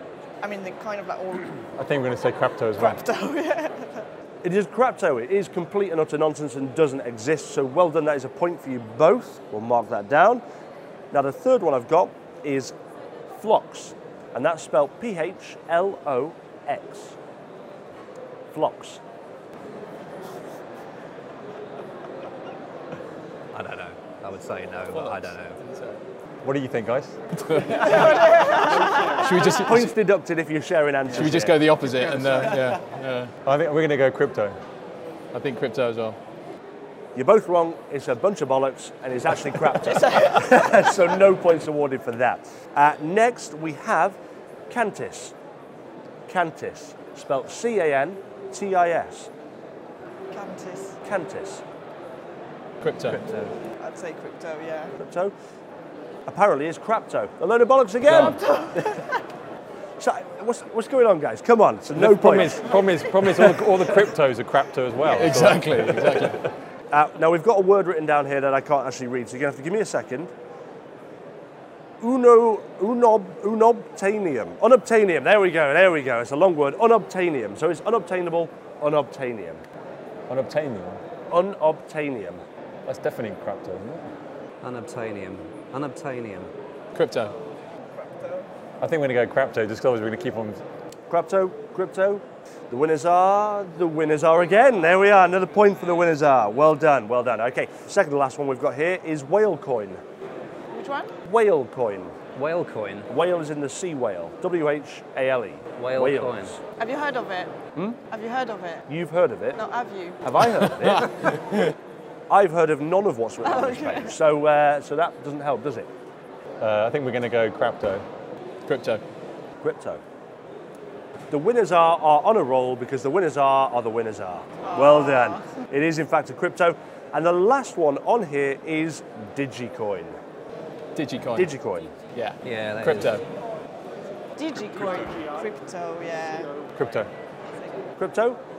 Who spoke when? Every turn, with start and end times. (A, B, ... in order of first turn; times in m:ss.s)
0:00.4-0:01.6 A
0:01.8-0:03.0 B
0:02.8-0:04.0 A
0:04.4-0:10.4 C
0:11.1-0:12.7 C
0:13.4-0:17.2 C
0:18.5-0:19.0 C
0:23.5-0:25.6 D
0:24.9-0:26.0 E
0:26.4-0:27.1 B
0:27.4-0:28.5 E
0:28.5-0:31.6 C
0:29.1-0:29.9 E
0:31.1-0:33.3 E
0:33.4-0:34.5 B
0:35.3-0:36.2 E
0:37.1-0:44.2 C
0:44.7-0:45.3 C
0:46.3-0:49.3 C
0:50.3-0:51.0 A
0:51.0-0:51.6 C
0:52.8-0:53.2 E
0:53.1-0:53.5 D
0:53.8-0:54.9 A
0:55.0-0:55.3 C
0:56.3-0:58.6 C
0:58.0-0:58.4 E
0:58.4-0:59.0 A
1:00.0-1:02.7 C
1:02.0-1:05.6 B
1:03.3-1:03.6 C
1:05.1-1:06.4 E
1:06.9-1:10.3 C
1:12.0-1:19.6 C
1:20.3-1:21.0 B
1:21.3-1:22.4 C
1:22.9-1:24.0 B
1:24.6-1:26.5 D
1:26.9-1:27.3 E
1:28.8-1:30.6 B
1:31.1-1:40.0 C
1:40.7-1:41.1 A
1:41.2-1:42.1 C
1:42.3-1:43.1 D
1:43.1-1:46.6 C
1:45.8-1:46.5 D
1:46.8-1:47.5 A
1:48.1-1:48.9 A
1:48.9-1:49.6 C
1:49.6-1:50.2 A
1:50.2-1:51.7 C
1:52.3-1:55.9 C
1:53.4-1:54.1 A
1:56.6-1:58.0 B
1:58.7-1:59.0 E
1:59.6-2:00.0 C
2:01.3-2:10.2 C
2:10.9-2:11.5 E
2:11.3-2:11.9 C
2:12.1-2:13.2 E
2:12.4-2:13.2 D
2:14.4-2:16.5 A
2:16.8-2:17.1 B
2:18.0-2:18.4 C